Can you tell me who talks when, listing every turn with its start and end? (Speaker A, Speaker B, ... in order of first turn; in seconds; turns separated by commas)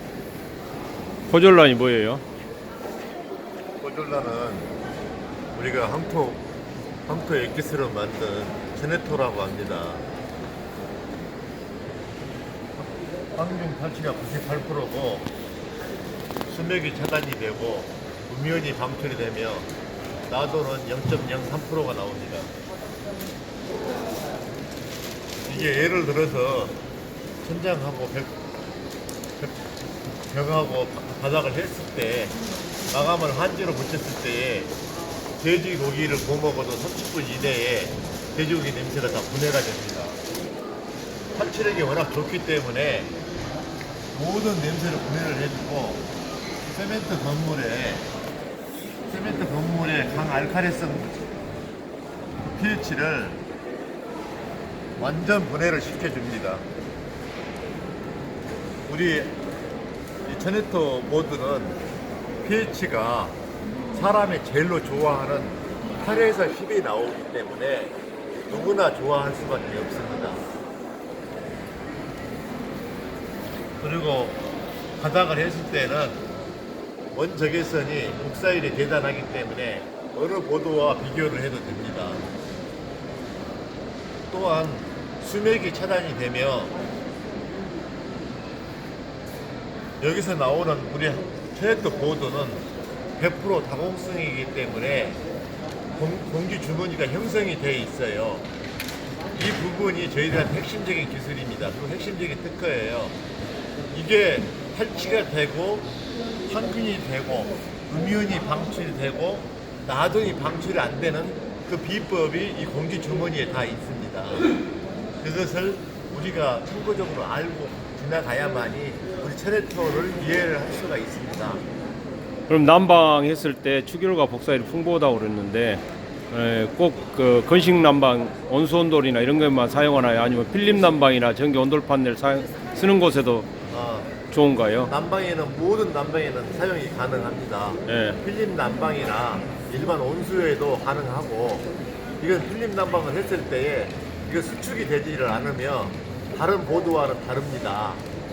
Speaker A: 1.3-2.2, Speaker B: 3.8-4.7, Speaker B: 5.5-6.4, Speaker B: 7.0-10.0, Speaker B: 12.8-15.3, Speaker B: 16.5-19.7, Speaker B: 20.3-22.5, Speaker B: 25.4-26.8, Speaker B: 27.4-28.4, Speaker B: 30.3-32.4, Speaker B: 32.9-34.7, Speaker B: 35.4-40.2, Speaker B: 41.3-43.1, Speaker B: 44.1-46.0, Speaker B: 46.7-48.1, Speaker B: 49.1-51.1, Speaker B: 52.5-53.4, Speaker B: 55.0-56.6, Speaker B: 58.9-59.4, Speaker B: 60.2-61.8, Speaker B: 62.4-63.4, Speaker B: 63.9-68.0, Speaker B: 68.5-70.4, Speaker B: 73.8-74.4, Speaker B: 75.0-76.2, Speaker B: 77.1-82.2, Speaker B: 84.3-86.7, Speaker B: 90.0-92.6, Speaker B: 93.2-95.2, Speaker B: 95.9-98.5, Speaker B: 99.3-103.2, Speaker B: 103.9-105.9, Speaker B: 106.5-114.5, Speaker B: 115.2-121.6, Speaker A: 122.5-133.5, Speaker B: 133.7-134.2, Speaker A: 134.3-134.9, Speaker B: 134.9-141.7, Speaker A: 137.9-138.2, Speaker B: 142.2-148.0